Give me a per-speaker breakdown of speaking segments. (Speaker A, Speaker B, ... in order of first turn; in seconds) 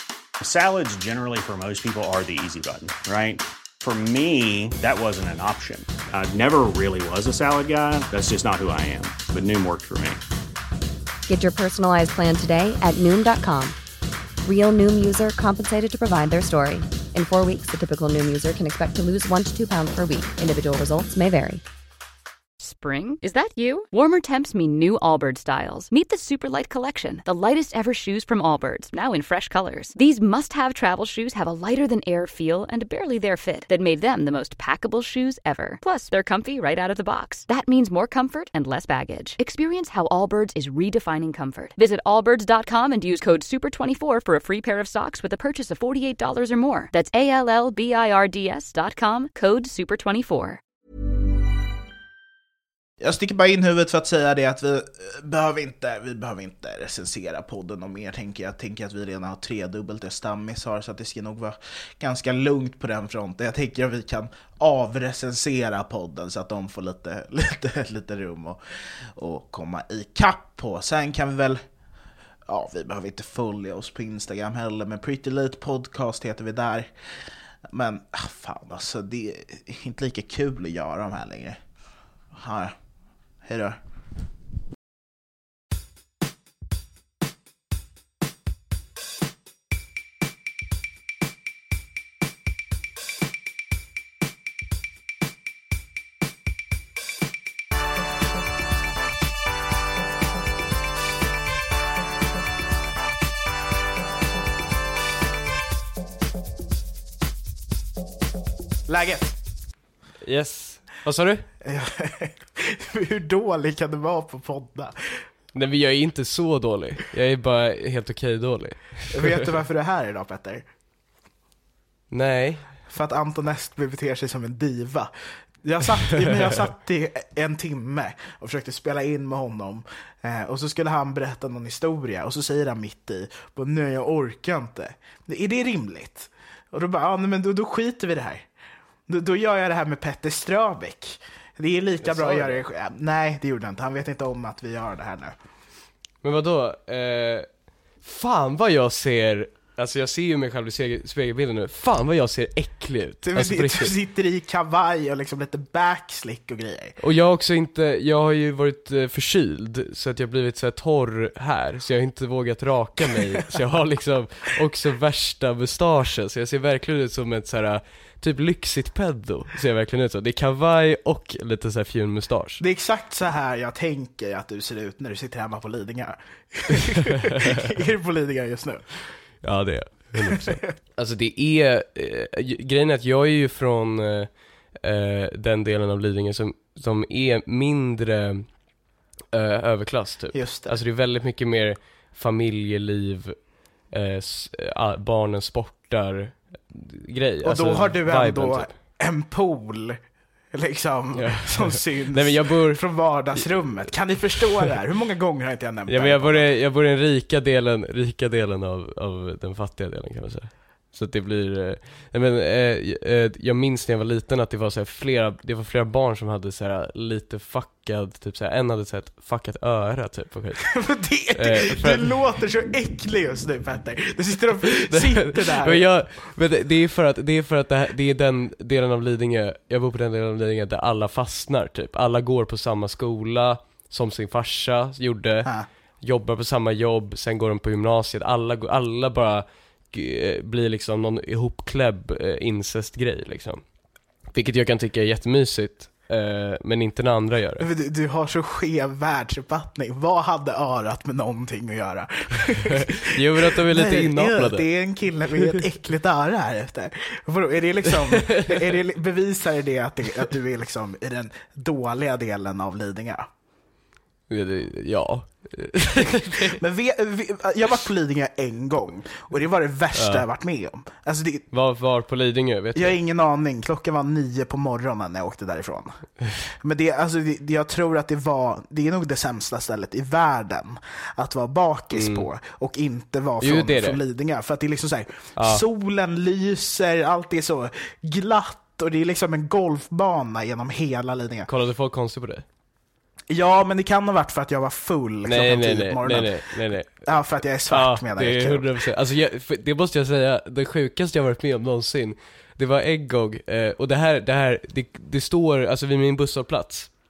Speaker A: 0.4-10.2
Speaker B: 11.3-13.8, 14.4-21.6
Speaker C: 22.6-50.6
Speaker D: 53.0-68.6, 69.1-71.6, 72.5-76.9, 77.7-81.6, 82.3-82.7, 83.4-83.8, 108.9-109.4, 111.6-115.2, 119.1-120.6, 122.9-138.5, 139.1-145.3, 153.2-157.0, 172.6-178.9, 190.3-190.7, 197.4-200.0, 200.5-206.4, 220.7-225.8, 247.6-263.3, 266.4-271.4, 272.7-276.0, 276.6-291.5, 293.3-296.3, 297.0-298.7
Speaker E: 110.2-111.5, 115.5-119.4, 122.1-122.7, 126.1-126.6, 142.0-142.6, 146.2-147.5, 148.0-153.9, 157.0-172.6, 177.0-177.7, 179.4-188.5, 189.3-193.4, 193.9-198.7, 201.1-203.4, 204.4-204.7, 205.9-222.1, 224.7-243.6, 244.3-247.7, 253.0-254.7, 258.1-258.6, 264.3-266.6, 269.9-270.2, 271.5-273.0, 281.9-282.3, 283.4-284.0, 285.4-285.6, 291.4-292.4, 295.2-297.1, 297.7-306.9